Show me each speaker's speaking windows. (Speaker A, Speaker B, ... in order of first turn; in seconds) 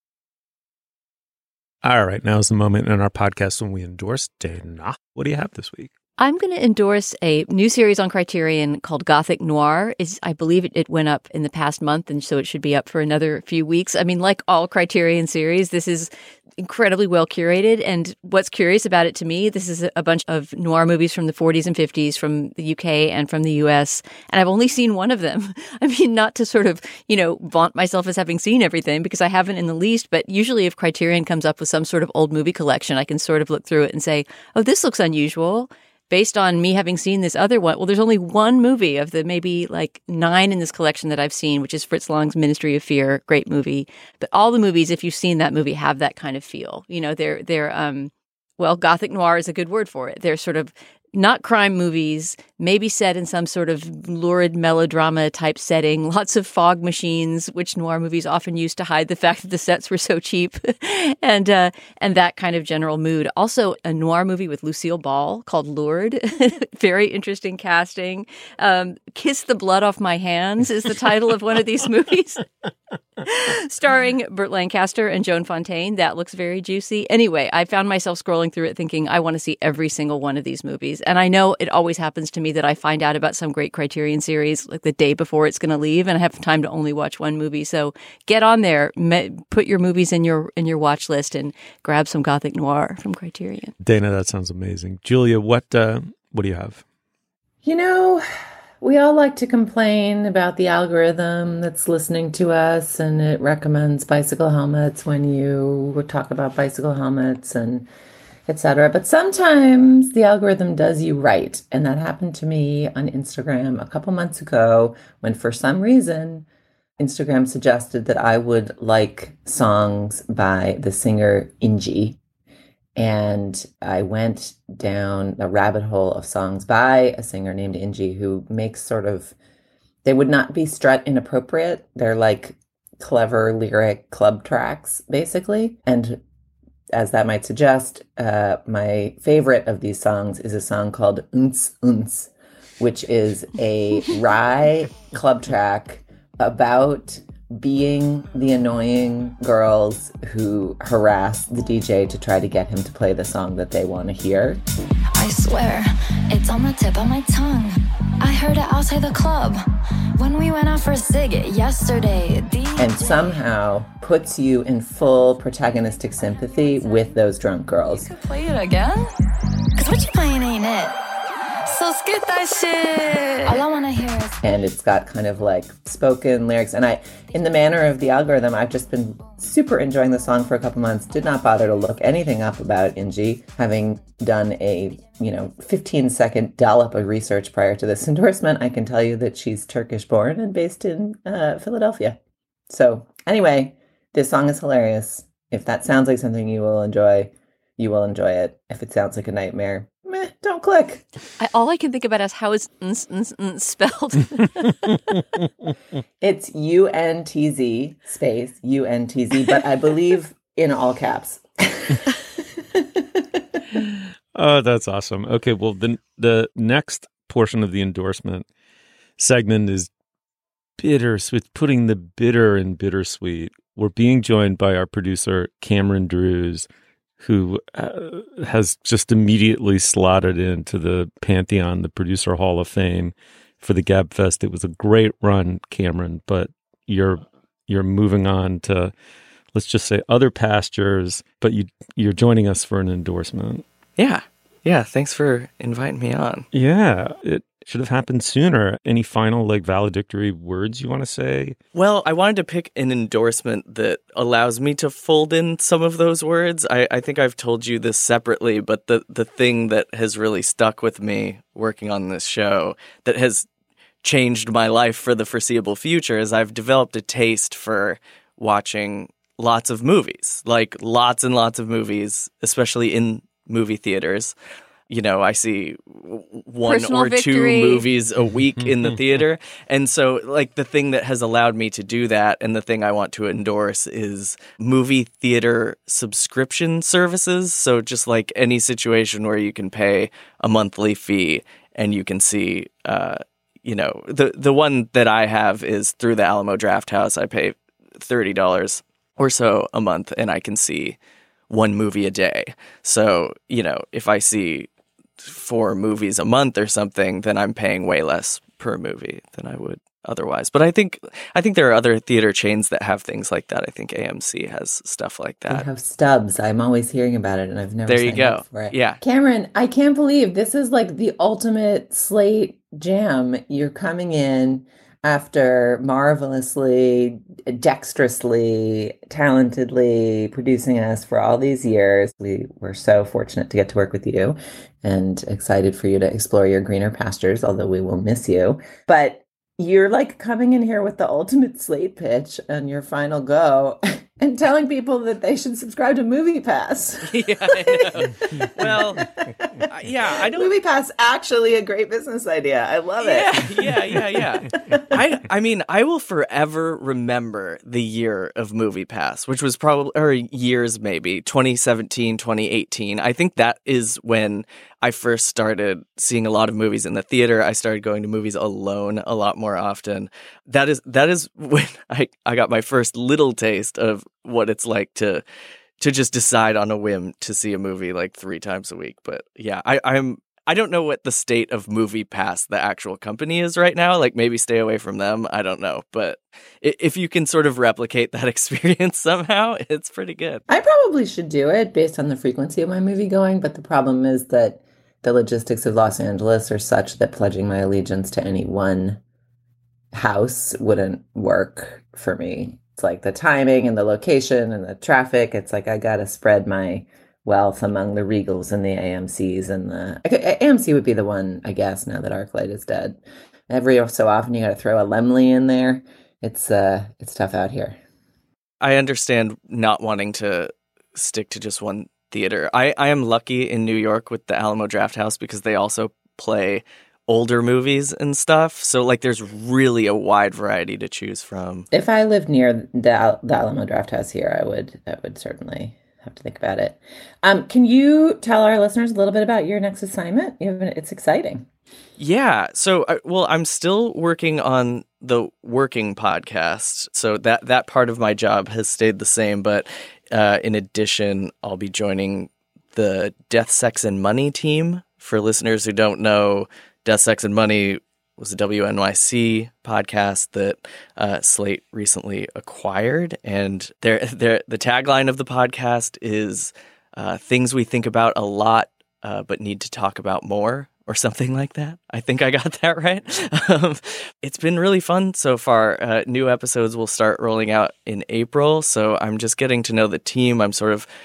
Speaker A: 1.8-5.9, 93.8-96.8, 214.3-218.5, 219.2-219.9, 220.8-226.7, 227.2-238.9, 239.5-243.7, 246.5-251.6, 278.6-278.9
Speaker B: 6.2-72.5, 73.2-93.8, 201.4-205.0, 276.6-277.9
Speaker C: 97.6-98.2, 98.8-107.9, 108.5-116.5, 117.0-122.2, 123.0-129.3, 130.0-136.2, 136.9-154.6, 162.8-168.1, 174.4-192.2, 192.7-201.0, 206.2-213.6, 315.5-355.1, 390.5-399.0, 399.9-417.8, 431.7-441.5
Speaker D: 155.2-159.6, 160.2-163.3, 167.9-169.1, 169.8-171.0, 171.7-174.4
Speaker E: 244.0-246.5, 251.7-263.5, 264.0-274.4, 274.9-301.0, 301.5-304.7, 305.2-315.7, 317.9-319.0, 347.1-349.1, 349.7-350.5, 353.0-375.2, 375.8-390.4, 418.6-431.7, 442.0-480.9